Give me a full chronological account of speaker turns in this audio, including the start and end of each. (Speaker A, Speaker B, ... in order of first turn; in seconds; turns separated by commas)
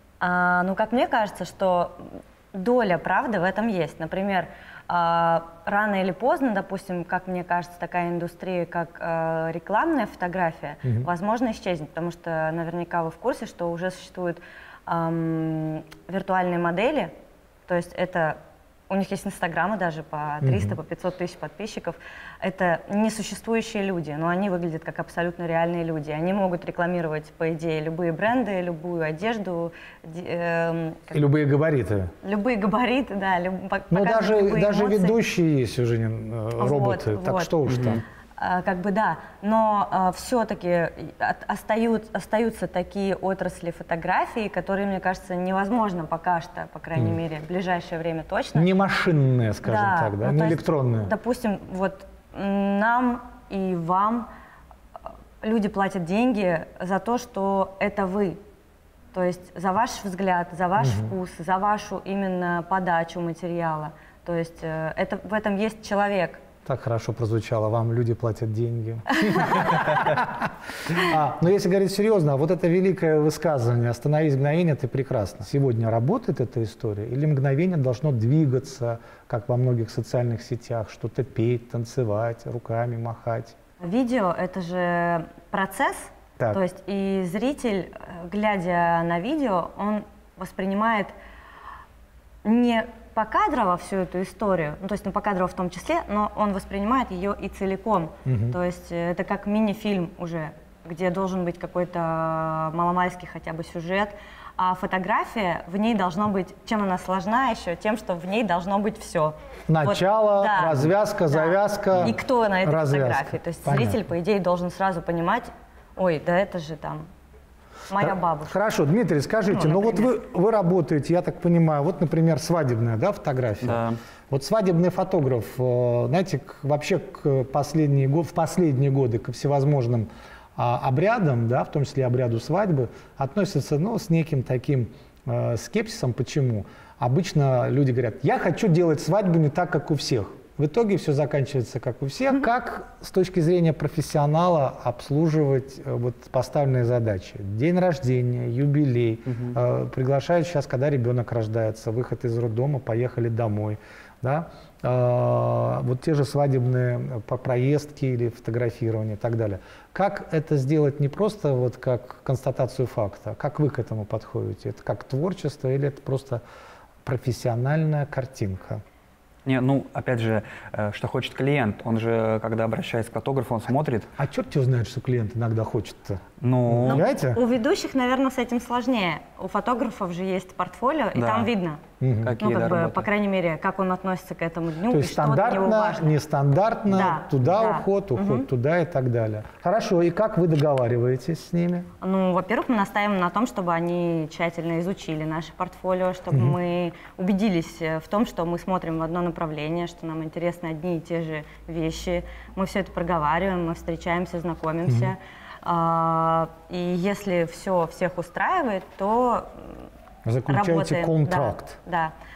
Speaker A: 0.2-17.1, Speaker A: 17.7-31.2, Speaker B: 20.4-20.8, Speaker B: 31.1-32.1, Speaker A: 32.2-35.2, Speaker B: 33.9-38.0, Speaker A: 36.6-37.6, Speaker C: 37.7-38.0, Speaker A: 38.4-48.7, Speaker B: 48.5-51.1, Speaker A: 49.6-54.3, Speaker A: 55.4-58.4, Speaker A: 59.1-66.4, Speaker B: 60.8-61.1, Speaker B: 66.7-83.5, Speaker A: 83.8-91.1, Speaker A: 92.4-117.1, Speaker B: 98.3-98.6, Speaker B: 109.7-114.0, Speaker A: 117.9-118.6, Speaker B: 118.0-166.4, Speaker A: 119.5-120.2, Speaker C: 123.6-124.0, Speaker C: 149.3-149.6, Speaker B: 167.0-168.8, Speaker C: 169.4-174.1, Speaker B: 174.2-177.4, Speaker C: 176.4-177.1, Speaker A: 176.9-181.8, Speaker C: 181.2-181.5, Speaker B: 182.0-182.3, Speaker C: 182.2-183.1, Speaker A: 182.4-186.1, Speaker B: 184.9-191.9, Speaker A: 186.9-188.5, Speaker A: 192.0-209.8, Speaker B: 204.9-205.1, Speaker B: 210.3-211.8, Speaker A: 210.5-212.1